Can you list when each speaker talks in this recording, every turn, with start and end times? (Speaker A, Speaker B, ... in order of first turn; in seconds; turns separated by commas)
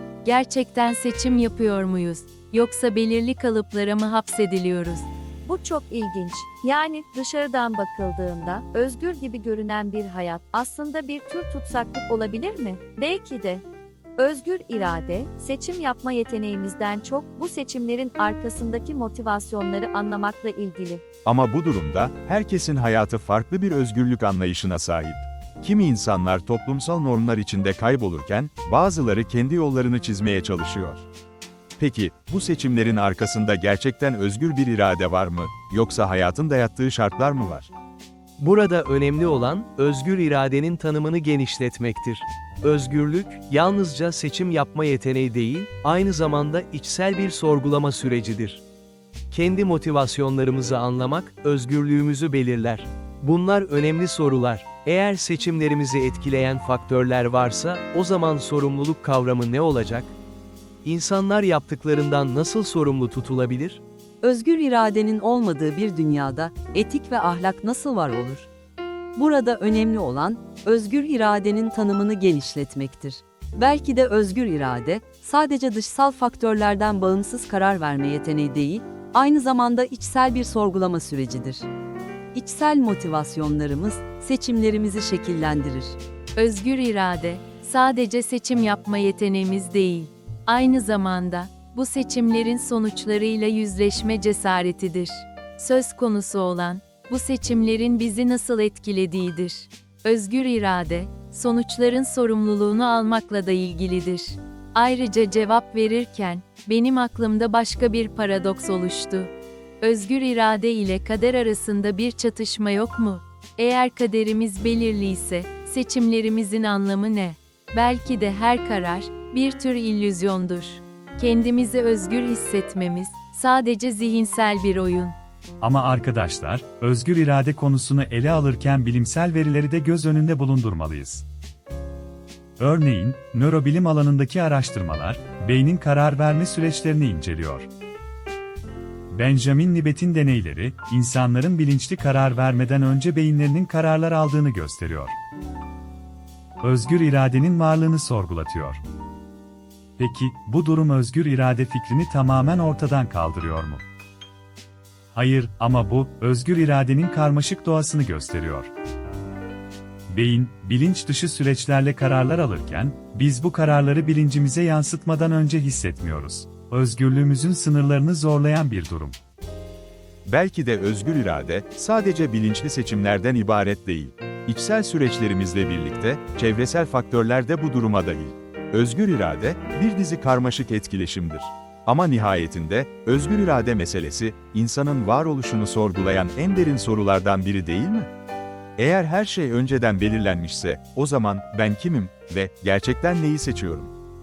Speaker A: 0.2-5.0, Speaker B: 5.5-13.6, Speaker B: 14.2-21.0, Speaker C: 21.2-31.1, Speaker C: 31.8-37.7, Speaker D: 38.4-48.6, Speaker D: 49.3-60.1, Speaker D: 60.8-63.8, Speaker E: 64.2-68.5, Speaker E: 69.1-81.7, Speaker E: 82.3-86.0, Speaker A: 86.3-125.1, Speaker F: 125.6-131.2, Speaker F: 132.6-137.7, Speaker F: 139.1-145.2, Speaker F: 146.6-148.8, Speaker F: 150.0-153.8, Speaker F: 155.1-158.7, Speaker F: 160.1-169.2, Speaker C: 170.2-188.1, Speaker C: 188.8-193.9